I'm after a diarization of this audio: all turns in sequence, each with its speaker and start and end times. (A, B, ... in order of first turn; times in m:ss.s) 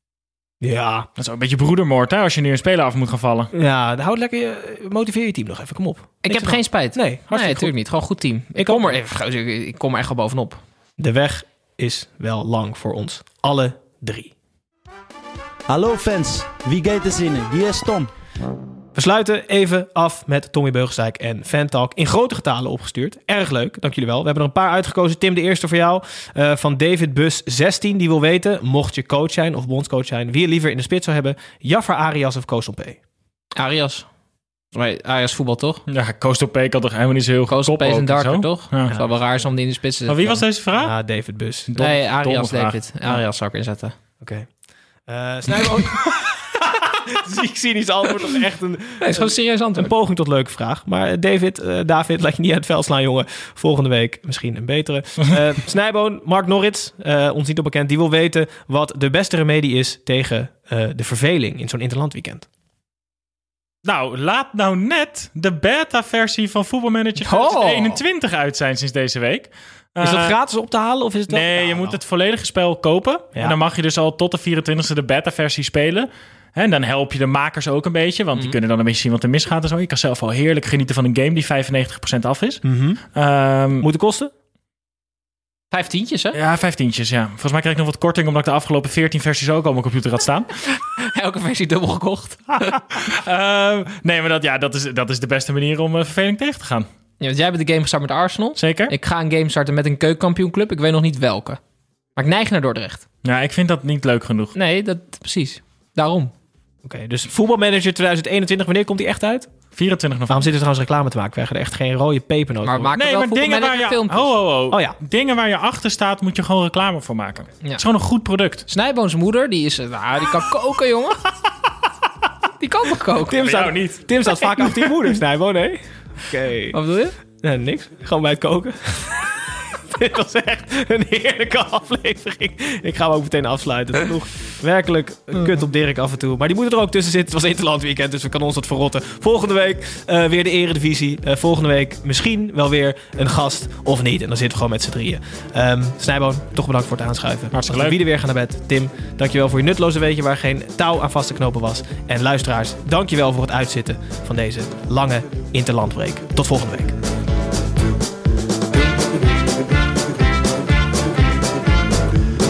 0:00.6-0:01.1 A
0:01.2-0:03.5 B
0:03.5-0:07.6 A
0:06.2-0:10.6 C
0:08.6-0:09.0 A
0:11.0-0:14.3 A
0:15.7-0:18.1 D
0:19.0-0:33.0 A
0:33.6-0:34.1 C
0:34.7-0:35.8 C
0:35.9-0:38.9 B
0:37.5-0:40.4 C
0:38.9-0:39.4 A
0:40.1-0:40.9 B
0:40.8-0:41.7 A
0:41.7-0:43.2 B
0:41.8-0:44.0 C
0:44.2-0:44.5 A
0:45.1-1:02.5 A
0:49.0-0:49.9 C
1:03.8-1:10.4 B
1:07.2-1:08.0 C
1:10.0-1:12.0 A
1:11.3-1:22.6 B
1:22.6-1:23.0 A
1:23.2-1:23.9 B
1:23.8-1:24.3 A
1:25.7-1:26.4 C
1:26.3-1:30.5 B
1:31.0-1:32.8 C
1:32.9-1:36.9 B
1:37.2-1:41.6 C
1:38.6-1:38.9 B
1:42.2-1:43.0 C
1:43.2-1:44.5 B
1:44.6-1:46.3 C
1:46.8-1:49.5 A
1:49.8-1:50.5 B
1:50.3-1:52.9 A
1:52.6-1:54.3 C
1:53.0-1:58.6 B
1:54.7-1:55.0 A
1:58.7-2:01.2 C
2:02.6-2:03.6 C
2:03.3-2:06.8 A
2:03.4-2:04.0 B
2:06.7-2:07.2 C
2:07.4-2:37.0 A
2:27.5-2:28.0 B